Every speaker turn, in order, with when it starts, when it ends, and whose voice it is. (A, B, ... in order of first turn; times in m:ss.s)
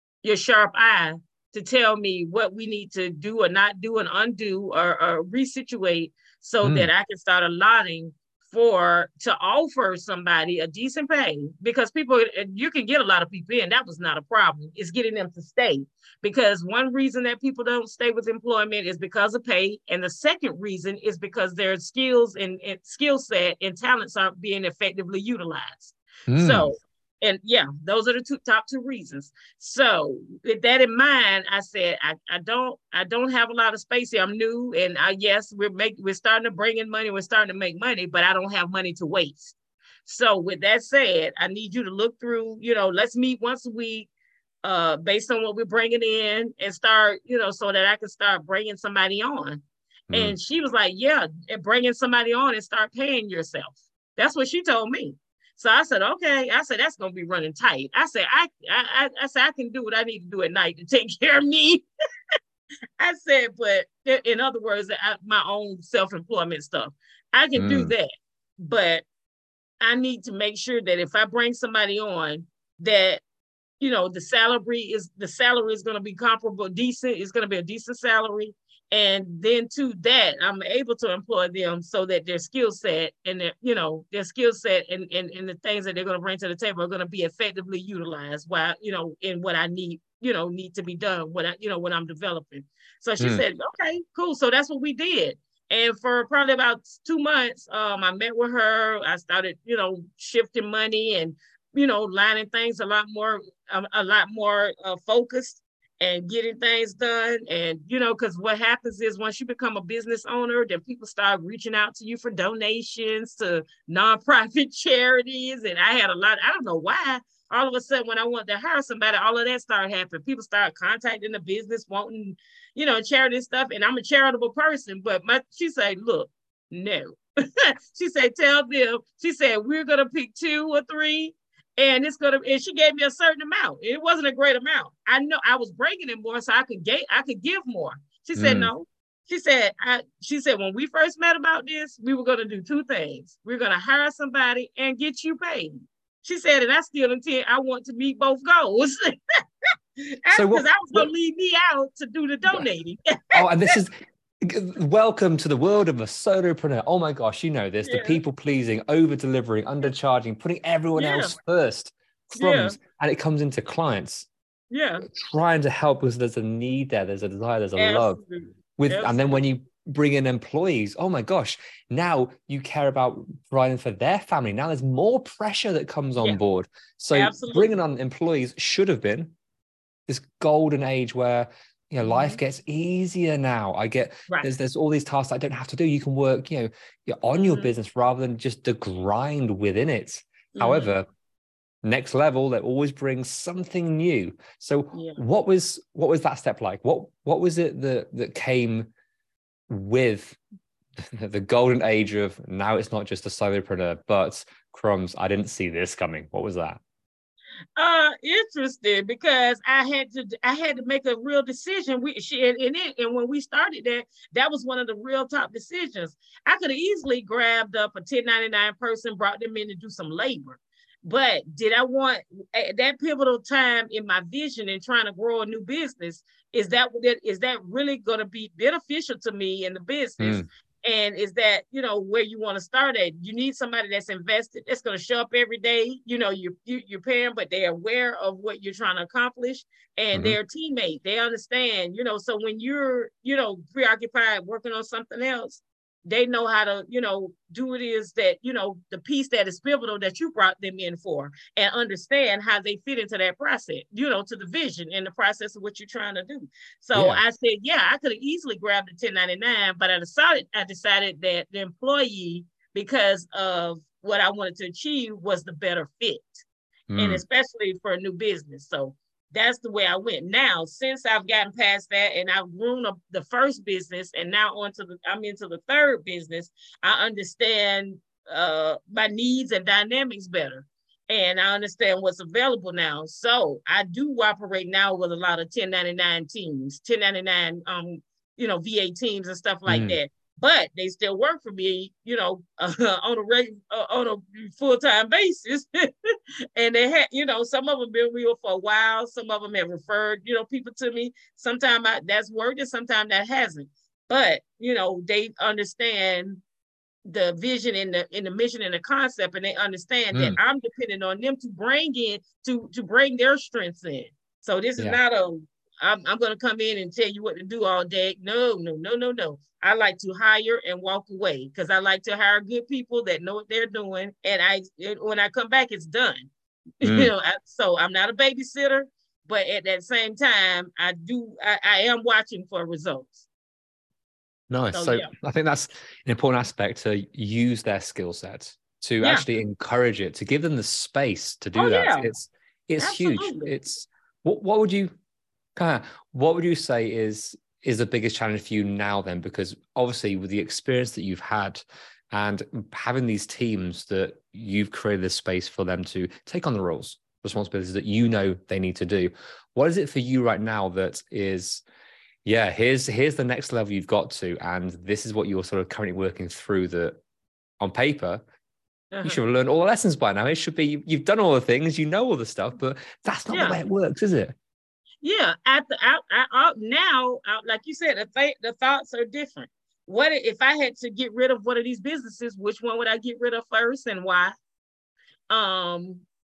0:00.2-0:44.1 A
0:06.6-0:06.9 B
0:26.3-0:26.7 B
0:44.6-1:01.8 A
1:03.0-1:09.0 A
1:07.6-1:07.9 B
1:09.8-1:13.2 A
1:13.8-2:29.2 A
1:33.2-1:33.4 B
2:18.4-2:18.7 B
2:30.2-2:33.8 A
2:30.3-2:31.1 B
2:33.3-2:44.3 B
2:37.8-2:38.2 A
2:41.0-2:41.3 A
2:42.4-2:42.8 A
2:44.7-2:45.1 A
2:45.0-2:48.2 B
2:47.8-2:49.4 A
2:48.8-2:59.3 B
2:57.1-2:57.8 A
3:00.1-3:11.1 B
3:02.0-3:02.4 A
3:07.3-3:07.7 A
3:10.6-3:10.9 A
3:11.8-3:18.9 B
3:14.9-3:15.2 A
3:19.7-3:20.4 B
3:21.0-3:26.8 B
3:27.8-4:26.4 A
3:50.2-3:50.5 B
4:00.1-4:00.4 B
4:16.9-4:17.2 B
4:26.9-4:27.2 B
4:27.0-5:06.4 A
4:49.7-4:50.0 B
5:07.1-5:26.3 A
5:26.8-5:33.3 A
5:26.8-5:27.1 B
5:34.5-5:44.9 B
5:34.7-5:35.1 A
5:39.0-5:39.3 A
5:41.6-5:42.1 A
5:42.8-5:43.5 A
5:45.6-6:01.6 B
6:02.2-6:07.0 B
6:07.6-6:08.2 B
6:08.9-6:09.2 A
6:09.0-6:14.3 B
6:13.3-6:13.6 A
6:15.0-6:24.3 A
6:25.3-6:26.0 A